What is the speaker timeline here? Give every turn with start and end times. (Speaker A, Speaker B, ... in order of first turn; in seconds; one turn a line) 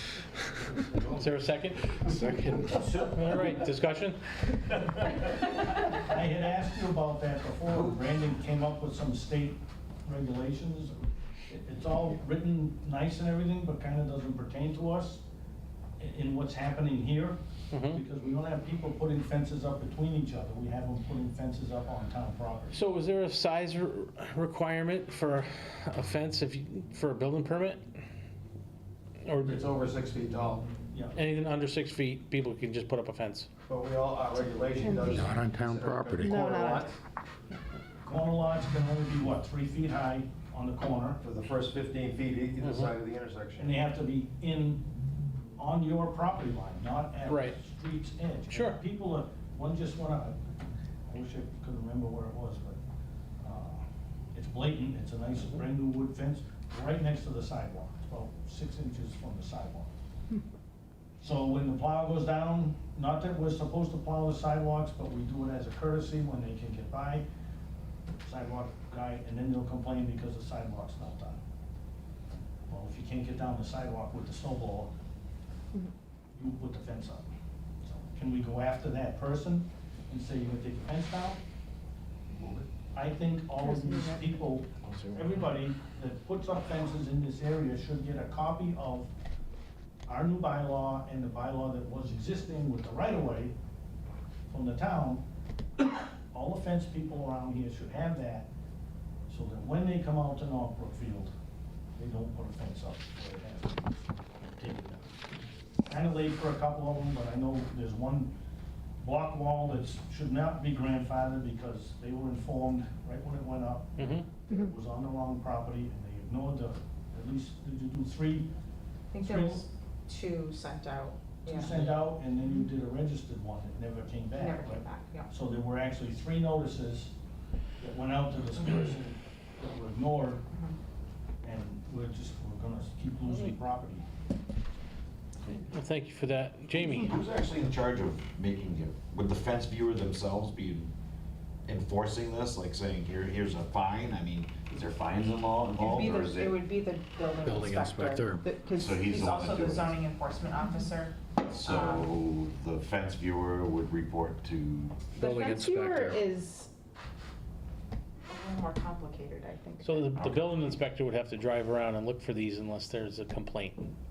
Speaker A: 0.6-1.4
Speaker B: 1.1-2.0
Speaker C: 2.1-3.0
Speaker B: 3.0-4.4
Speaker D: 5.8-15.2
Speaker D: 16.0-22.8
Speaker B: 17.7-18.0
Speaker B: 22.7-27.9
Speaker B: 29.2-29.6
Speaker A: 29.4-30.6
Speaker B: 31.1-33.5
Speaker A: 33.7-37.0
Speaker C: 35.0-36.5
Speaker E: 36.2-36.8
Speaker D: 38.0-41.2
Speaker A: 41.2-43.7
Speaker B: 42.6-42.9
Speaker D: 43.6-44.8
Speaker D: 45.6-50.4
Speaker B: 47.3-47.5
Speaker B: 48.5-48.8
Speaker D: 51.1-52.8
Speaker D: 53.4-59.9
Speaker D: 61.2-67.2
Speaker D: 68.2-71.4
Speaker D: 72.7-74.9
Speaker D: 76.3-77.2
Speaker D: 77.8-81.4
Speaker A: 82.3-82.7
Speaker D: 82.9-89.1
Speaker A: 84.9-85.2
Speaker D: 90.1-93.5
Speaker D: 94.5-95.2
Speaker D: 96.3-98.5
Speaker D: 99.3-101.3
Speaker D: 102.0-105.1
Speaker D: 105.9-108.3
Speaker D: 109.0-118.5
Speaker B: 114.0-114.2
Speaker E: 119.1-121.7
Speaker D: 119.2-119.7
Speaker D: 121.4-127.1
Speaker E: 124.3-125.3
Speaker D: 127.8-130.4
Speaker E: 130.5-130.8
Speaker D: 131.4-134.0
Speaker B: 135.5-137.1
Speaker F: 136.7-140.9
Speaker F: 141.7-146.6
Speaker E: 145.8-152.0
Speaker C: 147.4-148.5
Speaker F: 148.8-150.0
Speaker F: 151.5-155.2
Speaker C: 155.2-156.3
Speaker E: 155.2-156.7
Speaker E: 158.3-160.1
Speaker B: 159.8-163.8
Speaker F: 160.1-160.6